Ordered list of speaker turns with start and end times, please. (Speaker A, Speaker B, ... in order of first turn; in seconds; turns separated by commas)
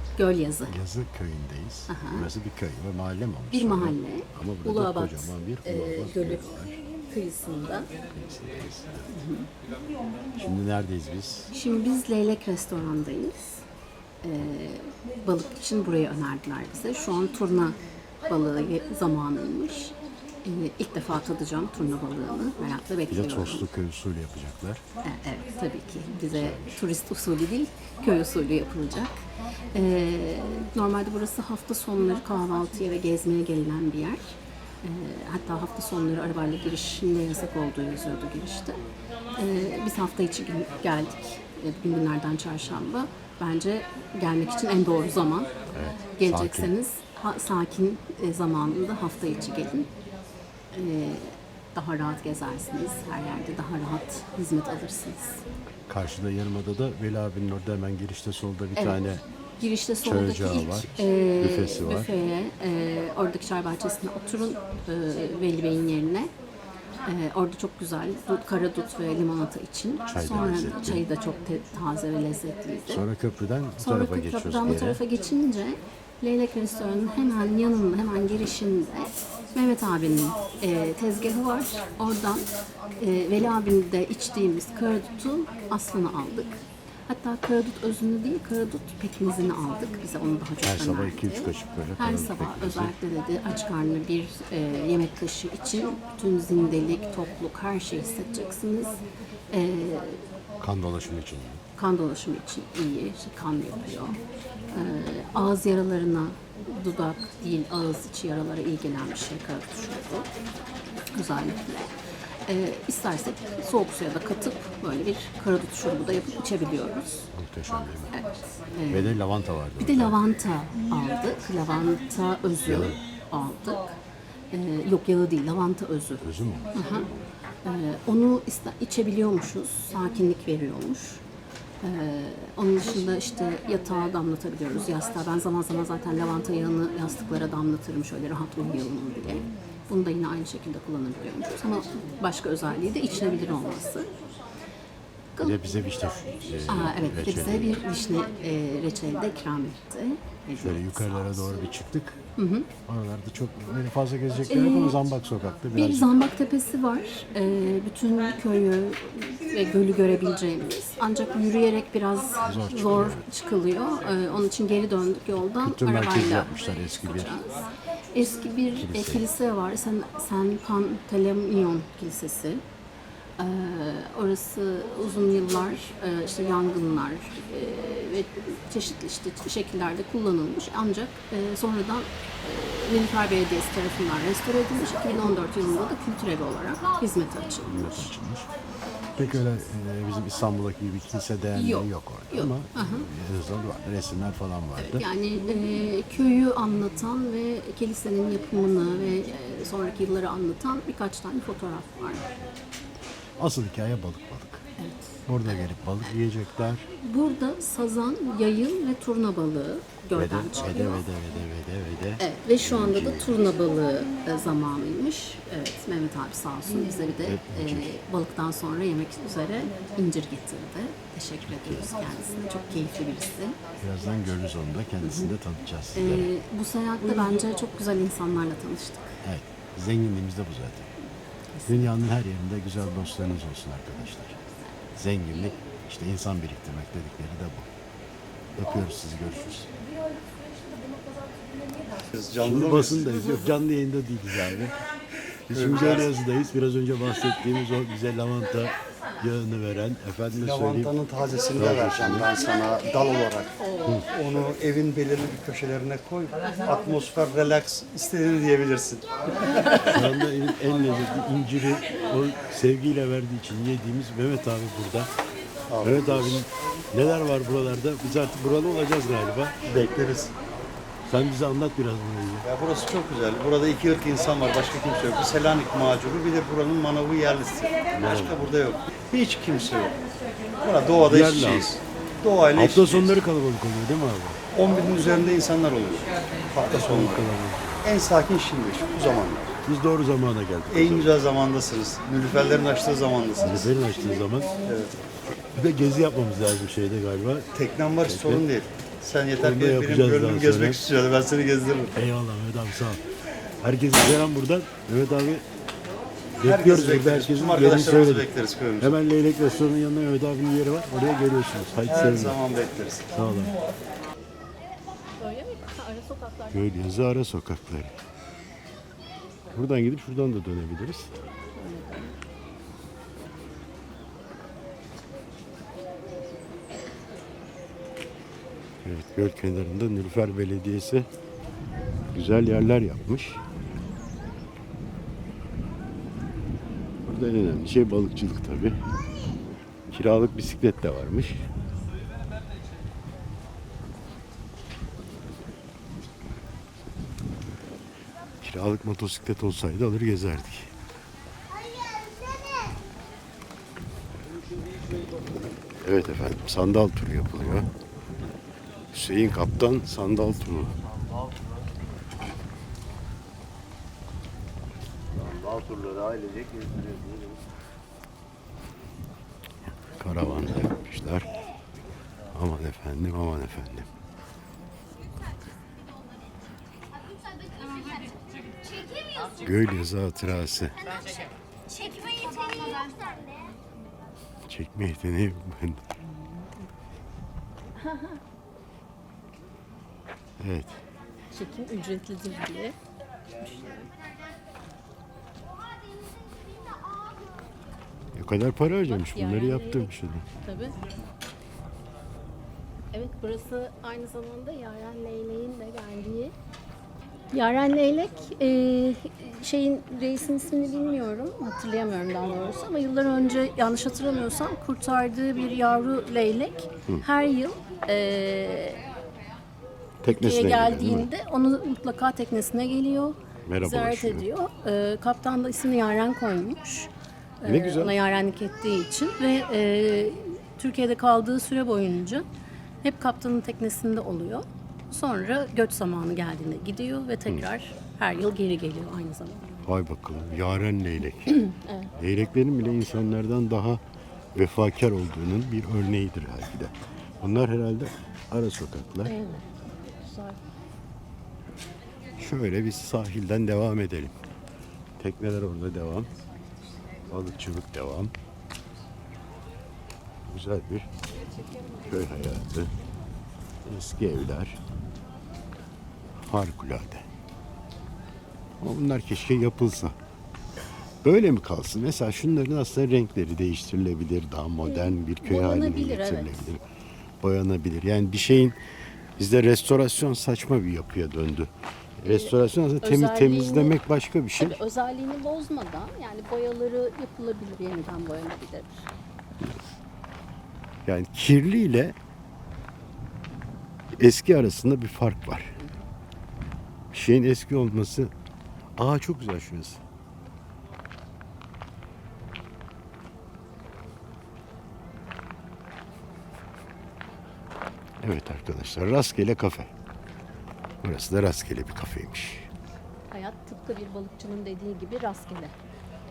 Speaker A: 0.2-0.8, Speaker B: 0.7-6.7, Speaker A: 1.9-2.3, Speaker A: 3.5-7.9, Speaker B: 8.1-9.1, Speaker A: 9.1-9.5, Speaker B: 10.3-11.5, Speaker A: 11.5-13.6, Speaker A: 14.2-23.7, Speaker B: 23.1-24.8, Speaker A: 25.0-38.8, Speaker B: 26.3-26.8, Speaker A: 39.3-45.5, Speaker B: 45.7-46.7, Speaker A: 46.1-49.9, Speaker A: 50.7-55.4, Speaker B: 55.9-59.2, Speaker A: 58.8-59.0, Speaker A: 59.6-66.3, Speaker B: 60.0-62.1, Speaker A: 67.0-73.0, Speaker B: 70.1-71.0, Speaker B: 72.9-75.0, Speaker A: 73.8-100.3, Speaker B: 90.6-93.0, Speaker B: 100.6-101.6, Speaker A: 101.8-110.3, Speaker A: 110.9-117.3, Speaker B: 117.3-118.2, Speaker A: 118.1-119.2, Speaker B: 118.9-120.2, Speaker A: 119.8-124.0, Speaker B: 122.7-123.0, Speaker A: 124.5-131.2, Speaker B: 126.2-127.1, Speaker A: 131.8-144.2, Speaker A: 145.3-145.7, Speaker B: 145.4-147.8, Speaker A: 146.7-151.5, Speaker B: 150.6-152.2, Speaker A: 152.4-152.7, Speaker B: 152.8-156.1, Speaker A: 154.4-155.1, Speaker A: 155.7-167.6, Speaker B: 162.4-163.2, Speaker B: 165.5-167.3, Speaker A: 168.1-172.7, Speaker B: 168.8-169.2, Speaker A: 173.4-188.1, Speaker B: 187.6-188.5, Speaker B: 189.2-195.0, Speaker A: 191.6-193.1, Speaker A: 194.8-202.3, Speaker B: 203.4-204.6, Speaker A: 204.8-205.7, Speaker B: 205.3-206.8, Speaker A: 206.9-211.1, Speaker B: 210.1-213.4, Speaker A: 212.2-223.6, Speaker B: 217.2-217.9, Speaker B: 221.4-221.9, Speaker B: 223.8-226.3, Speaker A: 225.0-225.3, Speaker A: 225.9-229.2, Speaker B: 229.2-230.9, Speaker A: 231.3-231.9, Speaker B: 231.7-234.4, Speaker B: 234.9-237.7, Speaker B: 238.6-239.7, Speaker C: 242.1-243.3, Speaker B: 242.4-244.7, Speaker B: 245.5-250.9, Speaker C: 245.5-246.1, Speaker C: 250.4-260.1, Speaker B: 251.6-252.3, Speaker A: 253.6-254.0, Speaker B: 259.8-265.1, Speaker C: 265.7-266.4, Speaker B: 265.8-269.6, Speaker C: 269.6-270.3, Speaker B: 271.1-272.5, Speaker C: 272.4-280.0, Speaker B: 277.9-278.5, Speaker C: 280.6-283.1, Speaker B: 281.0-281.7, Speaker B: 282.5-284.4, Speaker C: 284.5-287.3, Speaker B: 286.7-287.8, Speaker C: 287.8-289.6, Speaker B: 289.6-291.2, Speaker C: 290.7-293.7, Speaker B: 293.4-294.5, Speaker C: 294.6-294.9, Speaker B: 295.5-297.5, Speaker C: 297.6-301.9, Speaker B: 298.0-298.5, Speaker B: 299.4-300.8, Speaker B: 301.9-303.0, Speaker B: 303.6-305.4, Speaker B: 306.4-308.3, Speaker C: 306.4-309.0, Speaker B: 308.8-312.4, Speaker C: 311.9-313.1, Speaker B: 313.1-313.6, Speaker A: 315.2-316.8, Speaker B: 316.5-317.9, Speaker B: 319.5-321.1, Speaker A: 321.6-322.1, Speaker B: 328.8-331.1, Speaker B: 332.1-333.4, Speaker B: 337.0-338.8, Speaker B: 339.9-341.4, Speaker B: 348.4-350.7, Speaker B: 355.8-357.7, Speaker B: 358.9-360.7, Speaker B: 365.1-367.4, Speaker B: 369.7-371.3, Speaker B: 372.3-373.9, Speaker B: 379.2-381.1, Speaker A: 381.9-383.1, Speaker B: 384.4-385.8, Speaker A: 386.0-386.6, Speaker A: 387.8-388.2, Speaker B: 390.4-390.8, Speaker A: 391.3-392.8, Speaker A: 393.4-393.9, Speaker B: 398.1-400.2, Speaker A: 398.9-400.8, Speaker A: 402.9-406.3, Speaker A: 407.3-418.8, Speaker B: 420.0-421.1, Speaker A: 420.1-426.9, Speaker B: 423.4-424.3, Speaker A: 427.4-432.3, Speaker B: 427.4-427.9, Speaker A: 432.8-439.7, Speaker B: 439.6-441.4, Speaker A: 441.3-441.9, Speaker B: 441.9-443.8, Speaker B: 444.3-449.1, Speaker A: 449.0-450.4, Speaker B: 452.2-454.1, Speaker B: 455.0-456.1, Speaker B: 457.1-458.1, Speaker B: 460.3-460.9, Speaker B: 461.8-462.7, Speaker B: 463.6-464.6, Speaker B: 466.1-467.1, Speaker B: 468.6-469.9, Speaker B: 471.0-476.6, Speaker A: 474.6-476.5, Speaker B: 477.2-478.6, Speaker B: 479.2-484.6, Speaker A: 482.0-483.8, Speaker A: 484.4-488.9, Speaker B: 489.4-489.8, Speaker B: 490.8-491.9, Speaker B: 494.0-495.6, Speaker B: 496.9-498.1, Speaker B: 498.8-499.8, Speaker B: 508.0-509.7, Speaker B: 510.8-512.5, Speaker A: 513.1-515.5